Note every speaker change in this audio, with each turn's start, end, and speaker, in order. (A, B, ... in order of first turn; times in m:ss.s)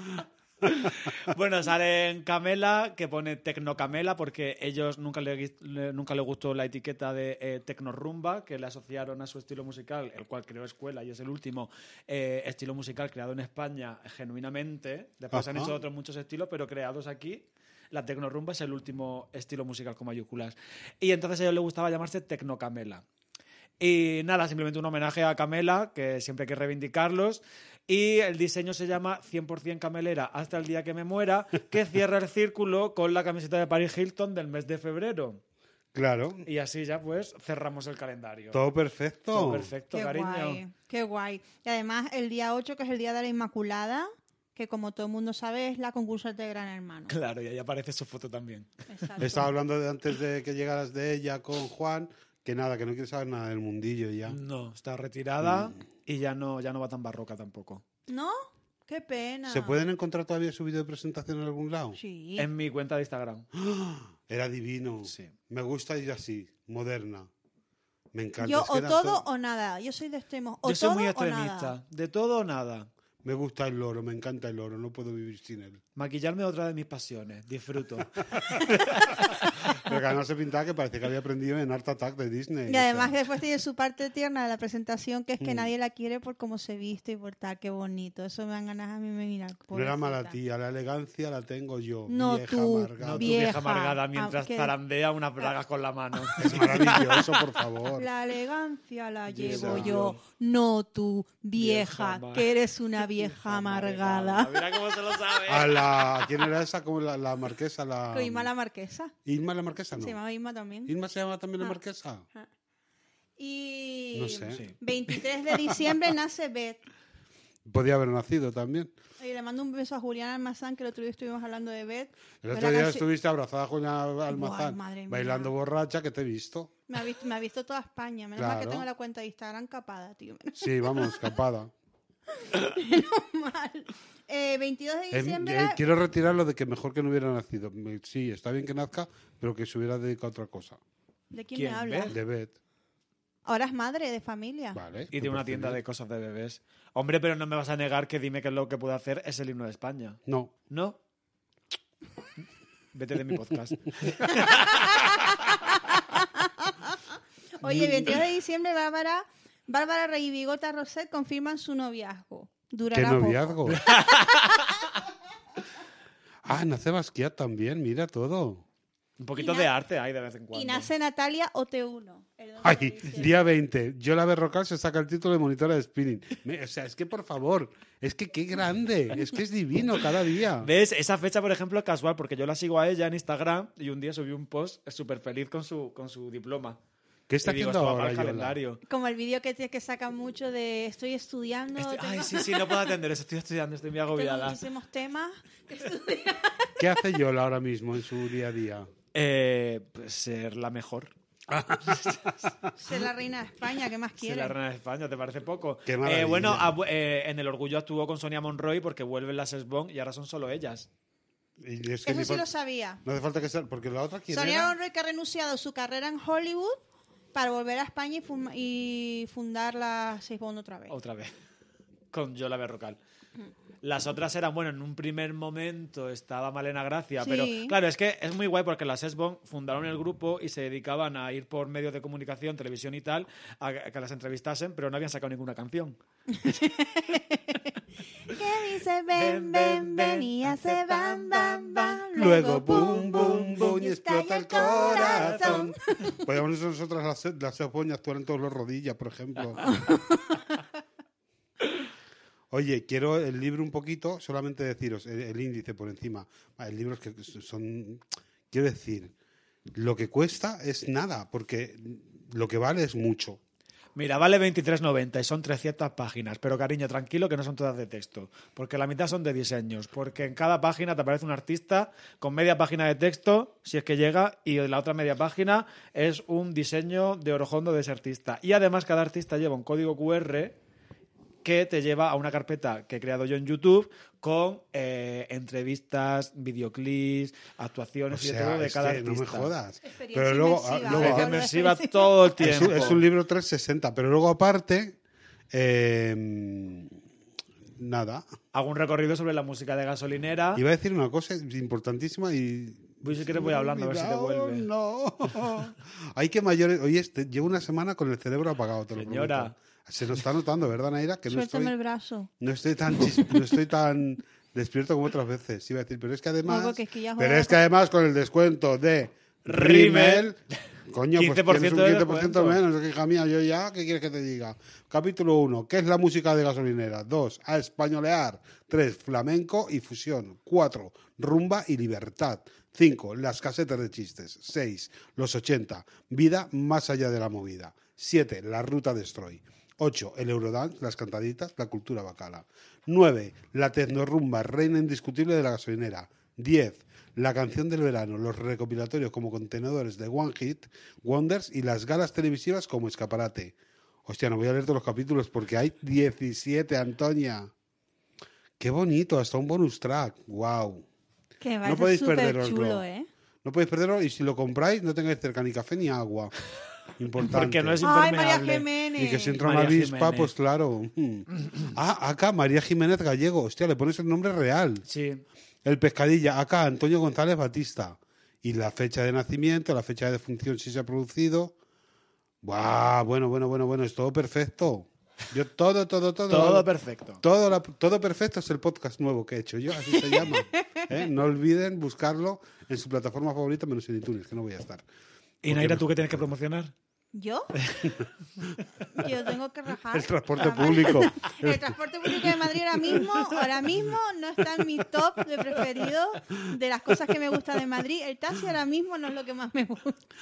0:00.7-0:23.0 A
0:15.3-0:15.8 B
0:23.8-0:35.4 A
0:35.9-0:36.5 B
0:36.5-0:38.6 A
0:38.5-0:39.7 B
0:39.3-0:40.6 A
0:39.9-0:47.1 C
0:47.1-0:49.1 A
0:48.9-0:49.5 C
0:49.2-0:54.4 B
0:54.3-0:57.8 A
0:55.4-0:55.7 B
0:58.1-0:59.8 C
0:59.5-1:02.0 B
1:02.0-1:02.5 C
1:02.4-1:03.5 A
1:03.5-1:07.3 B
1:05.1-1:05.3 A
1:08.1-1:09.2 B
1:08.4-1:11.8 C
1:10.6-1:12.9 A
1:13.2-1:15.8 B
1:16.0-1:19.2 A
1:19.7-1:23.1 B
1:22.7-1:30.4 C
1:25.4-1:25.7 B
1:29.7-1:33.4 B
1:32.1-1:34.7 C
1:33.0-1:37.4 A
1:36.4-1:38.1 B
1:38.0-1:44.8 C
1:39.3-1:40.2 A
1:39.5-1:40.0 B
1:41.6-1:46.3 A
1:45.5-1:48.5 B
1:48.1-1:49.1 C
1:49.2-1:50.2 B
1:50.0-1:50.9 C
1:50.9-1:52.3 B
1:53.4-1:56.8 C
1:54.1-1:54.6 B
1:57.6-1:58.9 B
1:59.2-2:03.0 C
2:02.4-2:06.7 B
2:04.3-2:05.5 C
2:06.9-2:11.3 C
2:08.4-2:08.9 B
2:10.6-2:11.7 B
2:12.4-2:15.8 C
2:15.1-2:20.8 B
2:21.3-2:22.2 C
2:21.6-2:22.2 A
2:22.1-2:22.6 B
2:23.4-2:24.8 C
2:24.7-2:25.8 B
2:25.1-2:31.0 A
2:30.3-2:30.5 B
2:32.9-2:35.0 A
2:34.4-2:37.0 C
2:37.6-2:44.2 C
2:37.6-2:38.2 B
2:42.9-2:43.8 B
2:43.7-2:44.6 A
2:46.4-2:48.6 B
2:49.2-2:50.9 A
2:49.4-2:49.7 C
2:50.5-2:53.5 C
2:52.6-3:00.7 B
3:00.6-3:06.8 A
3:07.3-3:08.6 B
3:07.4-3:08.8 A
3:08.9-3:12.9 C
3:11.8-3:14.6 A
3:14.1-3:16.8 C
3:16.8-3:18.9 B
3:19.1-3:21.1 A
3:21.5-3:22.5 B
3:22.0-3:22.3 A
3:22.8-3:24.6 C
3:24.2-3:30.9 A
3:25.9-3:26.7 B
3:31.6-3:32.5 B
3:32.0-3:33.0 C
3:33.0-3:34.7 B
3:34.3-3:36.8 C
3:37.3-3:41.0 C
3:40.9-3:41.3 A
3:42.1-3:43.0 A
3:43.8-3:56.0 A
3:47.2-3:47.8 C
3:56.3-3:57.7 C
3:58.3-4:06.2 C
3:59.1-4:02.1 A
4:02.2-4:09.8 B
4:02.7-4:03.7 A
4:04.7-4:05.7 A
4:09.7-4:10.4 C
4:12.5-4:19.1 B
4:19.7-4:23.4 B
4:24.0-4:40.6 A
4:41.4-4:49.5 A
4:48.1-4:51.4 B
4:49.8-4:52.3 C
4:50.9-4:53.0 A
4:52.4-4:55.0 B
4:55.5-4:57.0 B
4:57.8-4:58.3 B
4:58.5-5:00.6 A
5:00.6-5:11.7 B
5:03.0-5:04.7 A
5:08.9-5:09.6 A
5:11.3-5:12.3 C
5:12.4-5:57.5 B
5:16.5-5:17.6 C
5:19.5-5:20.4 A
5:21.2-5:22.6 A
5:58.6-6:00.9 B
6:01.4-6:03.1 C
6:01.6-6:02.8 B
6:03.4-6:06.3 B
6:07.0-6:07.9 B
6:07.2-6:08.7 A
6:07.8-6:09.4 C
6:09.0-6:14.8 B
6:09.4-6:10.3 A
6:14.9-6:15.2 A
6:15.6-6:21.6 B
6:22.4-6:26.7 B
6:26.3-6:27.2 A
6:27.2-6:34.8 B
6:35.4-6:36.7 A
6:35.5-6:36.3 B
6:37.1-6:37.5 C
6:37.6-6:38.0 A
6:37.9-6:38.6 B
6:38.9-6:50.1 C
6:39.9-6:42.3 B